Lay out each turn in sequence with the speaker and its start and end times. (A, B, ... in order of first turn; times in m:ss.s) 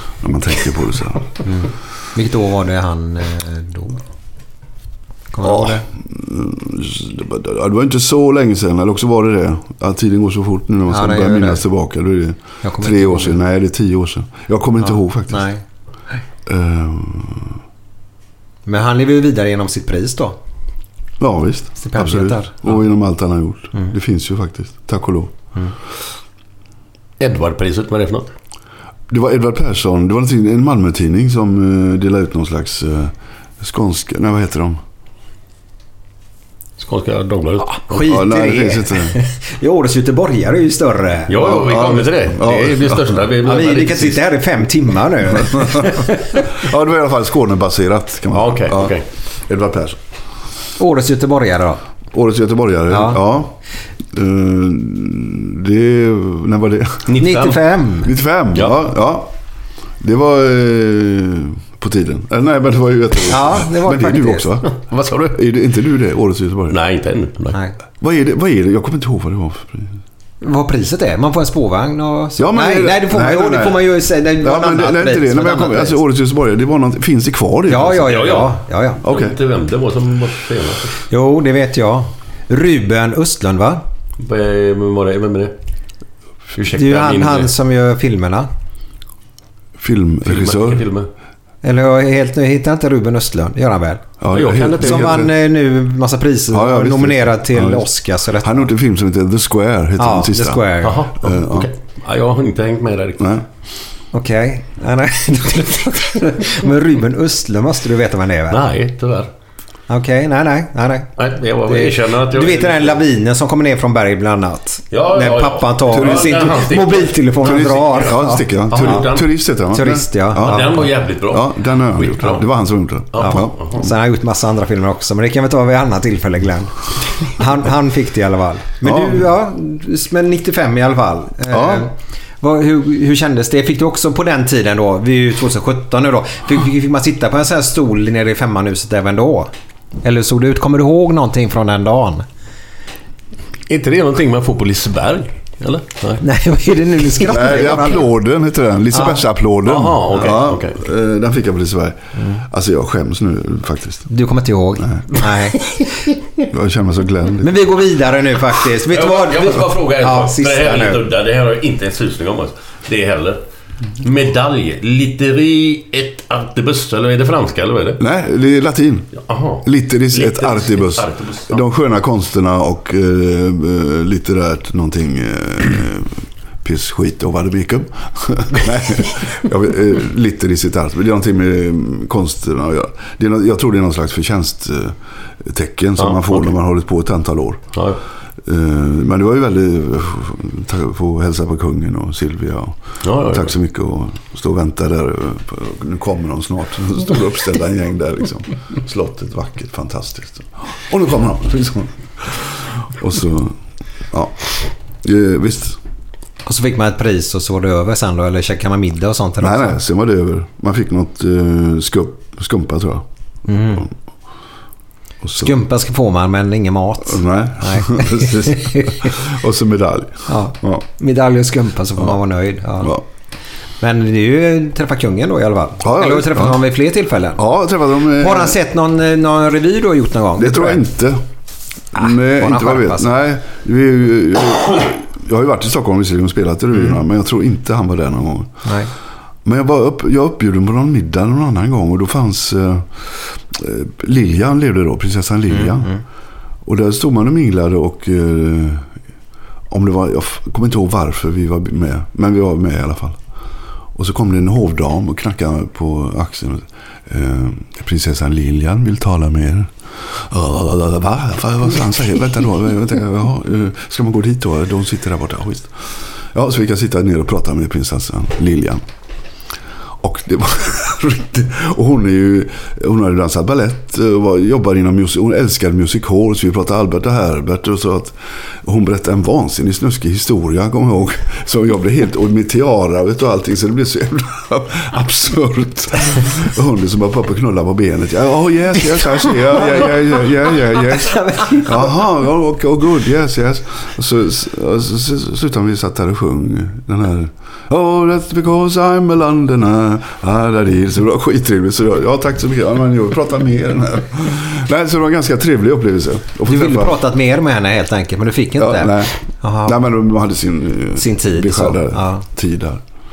0:00.2-0:01.3 A
0:01.4-0:04.0 B
0:05.3-0:05.8 B
0:05.4-0:15.5 A
0:10.9-0:11.6 B
0:12.6-0:13.4 B
0:14.8-0:15.6 B
0:16.4-0:17.5 A
0:18.6-0:20.4 B
0:21.2-0:25.4 A
0:21.8-0:22.8 B
0:27.2-0:28.3 C
0:29.1-0:34.8 A
0:36.8-0:37.8 C
0:37.6-0:41.3 B
0:37.9-0:39.2 A
0:41.3-0:44.2 C
0:41.3-0:43.2 A
0:43.4-0:46.5 B
0:45.5-0:50.0 A
0:48.3-0:49.0 C
0:50.8-0:51.8 B
0:52.1-0:53.6 A
0:52.9-0:53.2 B
0:54.1-0:57.2 A
0:57.1-0:57.6 C
0:57.2-0:58.1 B
0:58.0-0:59.3 A
1:00.0-1:04.7 A
1:03.3-1:04.4 B
1:04.7-1:05.4 C
1:05.3-1:06.8 A
1:06.7-1:07.6 C
1:08.0-1:10.0 A
1:10.4-1:16.0 B
1:12.4-1:18.2 A
1:17.7-1:19.0 B
1:17.9-1:18.5 C
1:19.0-1:19.4 A
1:19.0-1:21.0 C
1:21.1-1:23.8 B
1:24.2-1:25.5 C
1:26.6-1:27.5 C
1:26.7-1:28.5 B
1:29.8-1:30.8 A
1:30.2-1:31.1 C
1:31.6-1:34.1 B
1:34.2-1:35.3 A
1:34.3-1:35.2 C
1:34.8-1:38.7 B
1:36.5-1:40.6 A
1:40.0-1:41.0 B
1:40.8-1:43.3 C
1:41.2-1:41.7 A
1:43.2-1:43.4 A
1:44.1-1:48.6 B
1:48.5-1:49.3 C
1:49.9-1:51.1 B
1:51.2-1:53.0 C
1:51.7-1:59.0 B
1:54.9-1:58.2 C
1:55.9-1:56.5 A
1:57.4-2:03.9 A
1:58.7-1:59.3 C
1:59.7-2:00.7 B
2:00.4-2:02.4 C
2:03.1-2:03.8 C
2:03.2-2:06.7 B
2:07.3-2:19.5 B
2:08.8-2:09.3 A
2:11.5-2:11.9 A
2:20.0-2:22.2 B
2:23.7-2:26.2 C
2:26.2-2:28.0 B
2:27.3-2:34.1 A
2:28.9-2:29.2 B
2:29.6-2:30.8 C
2:32.2-2:32.4 B
2:34.1-2:36.1 B
2:34.8-2:35.1 A
2:36.5-2:37.6 A
2:37.4-2:41.0 B
2:38.9-2:43.4 C
2:44.0-2:48.0 C
2:48.0-2:49.1 A
2:49.2-2:51.6 C
2:49.6-3:07.7 A
3:06.0-3:06.5 C
3:07.7-3:08.0 C
3:08.4-3:23.6 A
3:13.0-3:13.5 C
3:24.1-3:24.5 A
3:25.0-3:25.8 A
3:26.4-3:29.8 B
3:29.4-3:33.0 A
3:33.5-3:33.9 B
3:35.2-3:35.5 A
3:35.4-3:39.1 B
3:37.0-3:40.8 A
3:40.3-3:43.0 B
3:43.8-3:47.4 B
3:45.8-3:46.6 A
3:47.3-3:48.6 A
3:48.1-3:50.8 B
3:50.4-3:51.2 A
3:51.9-3:58.6 A
3:51.9-3:53.1 B
3:58.6-3:58.9 B
3:59.4-4:05.9 A
4:05.5-4:06.0 B
4:06.6-4:08.9 A
4:09.7-4:13.2 A
4:13.9-4:28.8 A
4:30.0-5:07.0 A
4:49.5-4:50.0 B
4:50.8-4:51.9 B
5:06.5-5:09.8 B
5:08.6-5:12.8 A
5:11.0-5:12.2 B